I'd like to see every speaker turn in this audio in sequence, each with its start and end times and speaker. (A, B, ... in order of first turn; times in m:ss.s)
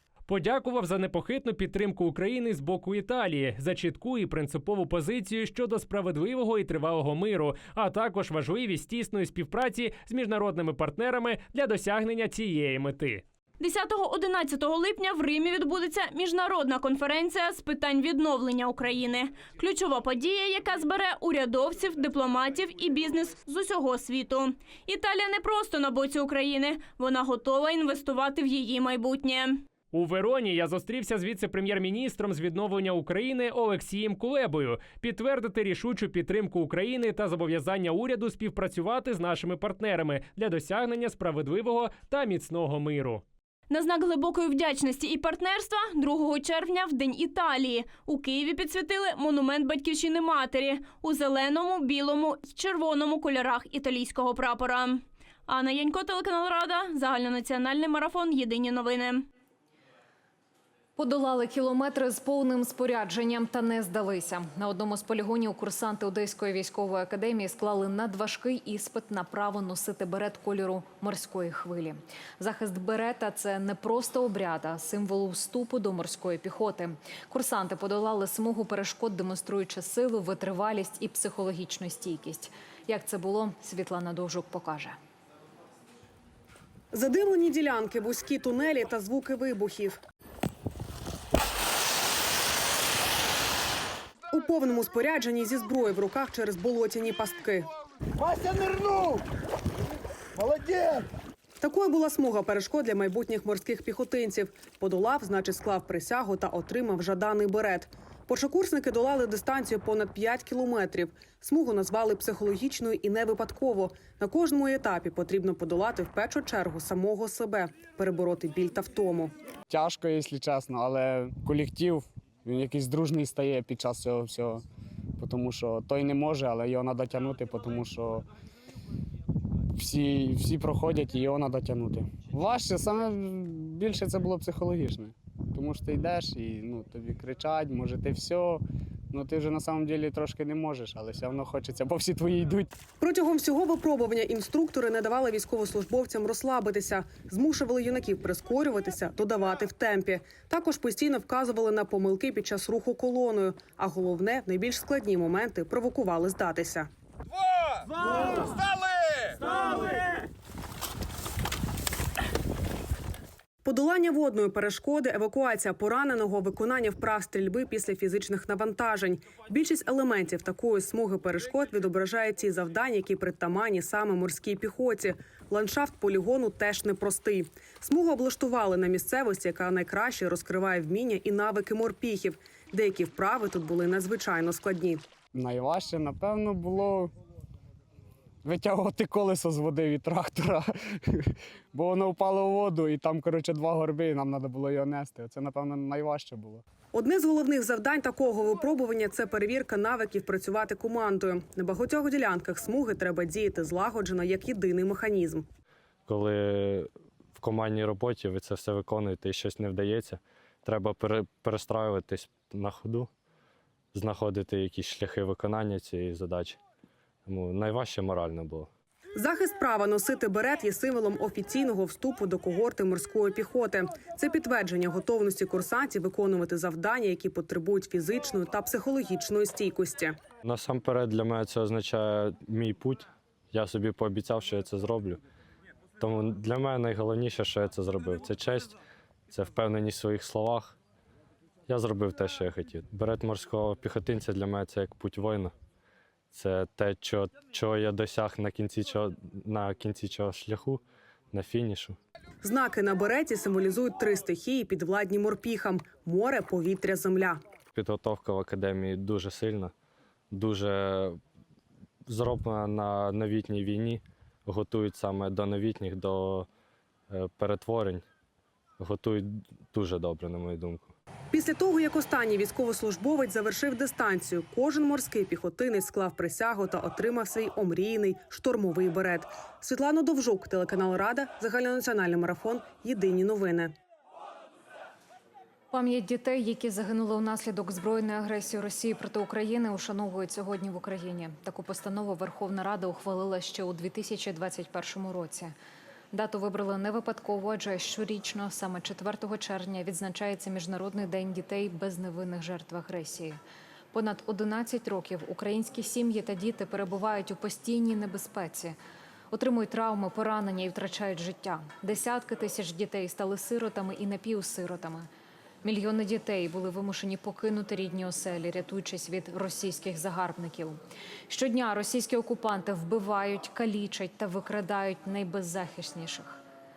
0:00.3-0:13.2 A
0:13.6-0:29.6 B
0:29.9-0:43.2 A
0:43.7-0:59.3 B
1:01.0-1:25.0 C
1:26.9-1:30.0 D
1:34.3-1:37.7 D
1:38.2-1:39.2 E
1:40.4-1:41.0 E
1:41.6-1:59.3 D
1:59.7-2:04.6 E
2:05.2-2:08.2 E
2:09.7-2:22.7 E
2:23.0-2:36.9 D
2:43.6-3:05.0 D
3:05.3-3:07.1 E
3:08.4-3:16.6 E
3:16.9-3:25.5 D
3:26.1-3:33.1 F
3:33.9-3:36.6 F
3:37.2-3:38.7 F
3:39.2-3:50.2 D
3:50.4-3:55.2 F
3:56.0-3:58.8 F
3:59.3-4:00.8 F
4:01.7-4:05.5 F
4:06.3-4:12.0 F
4:12.4-4:17.4 D
4:17.7-4:19.7 F
4:20.3-4:21.2 F
4:22.0-4:26.5 F
4:27.1-4:28.0 F
4:28.8-4:30.9 F
4:31.3-4:43.7 D
4:45.7-4:55.5 C
4:56.1-5:03.4 C
5:03.9-5:08.8 C
5:09.3-5:15.1 C
5:15.6-5:26.4 C